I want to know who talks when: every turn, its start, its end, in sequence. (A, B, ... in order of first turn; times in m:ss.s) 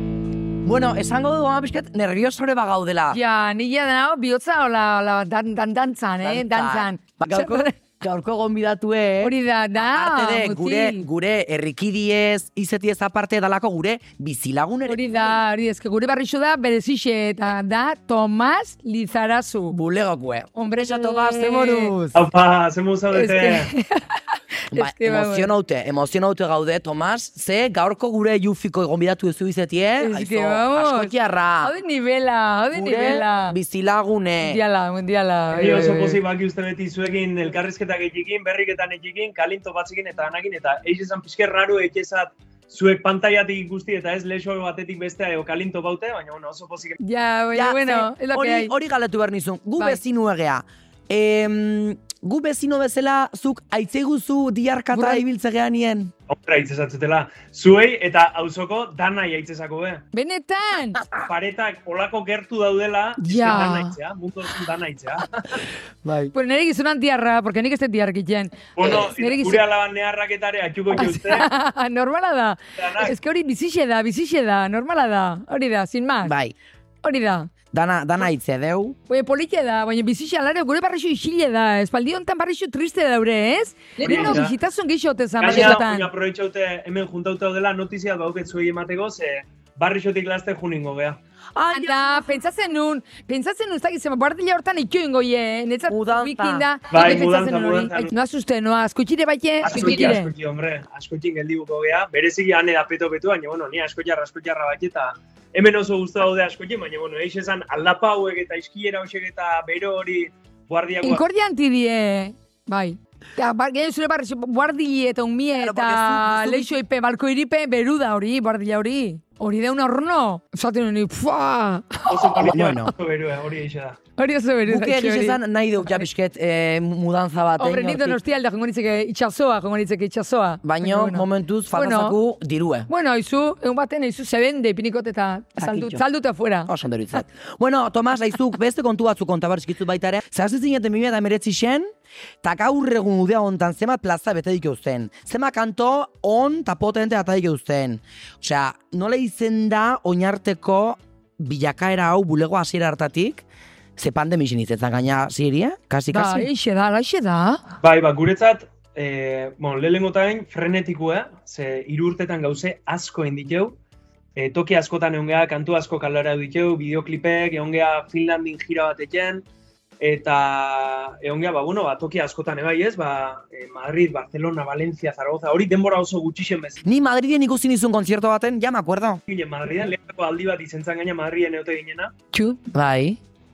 0:00.6-0:03.2 A
0:03.1-0:07.7 B
0:06.2-0:15.4 A
0:09.2-0:11.0 B
0:14.9-0:19.8 B
0:19.7-0:22.2 A
0:20.6-0:21.9 B
0:22.1-0:23.7 C
0:23.1-0:25.5 B
0:24.7-0:31.7 A
0:30.0-0:33.6 B
0:32.7-0:34.6 A
0:34.4-0:36.2 B
0:35.5-0:47.0 C
0:47.0-0:48.7 B
0:47.5-0:56.1 A
0:54.9-0:55.2 B
0:56.3-1:00.0 C
1:00.1-1:01.0 B
1:01.2-1:05.6 C
1:03.2-1:03.9 B
1:06.0-1:06.3 A
1:06.3-1:09.6 B
1:08.8-1:11.5 C
1:08.8-1:09.1 A
1:10.9-1:16.3 B
1:12.8-1:13.1 C
1:16.2-1:16.5 A
1:17.0-1:17.5 B
1:17.7-1:19.0 A
1:19.1-1:26.1 B
1:24.0-1:24.4 A
1:24.0-1:24.5 C
1:25.4-1:31.2 C
1:31.5-1:32.2 A
1:31.7-1:40.3 B
1:35.9-1:36.7 A
1:36.9-1:38.1 C
1:39.6-1:51.2 C
1:51.0-2:02.5 B
1:55.6-1:56.7 A
2:02.1-2:04.0 C
2:02.4-2:02.9 A
2:04.2-2:05.4 B
2:04.6-2:08.2 A
2:07.6-2:12.2 B
2:10.6-2:12.9 A
2:12.9-2:16.7 B
2:15.6-2:16.0 A
2:16.7-2:21.9 A
2:22.4-2:33.4 A
2:34.0-2:36.5 A
2:36.1-2:37.6 B
2:37.8-2:43.8 C
2:44.4-2:49.4 C
2:50.0-2:56.8 C
2:56.8-2:59.2 A
2:59.3-3:02.1 C
3:02.3-3:02.6 B
3:02.7-3:03.2 A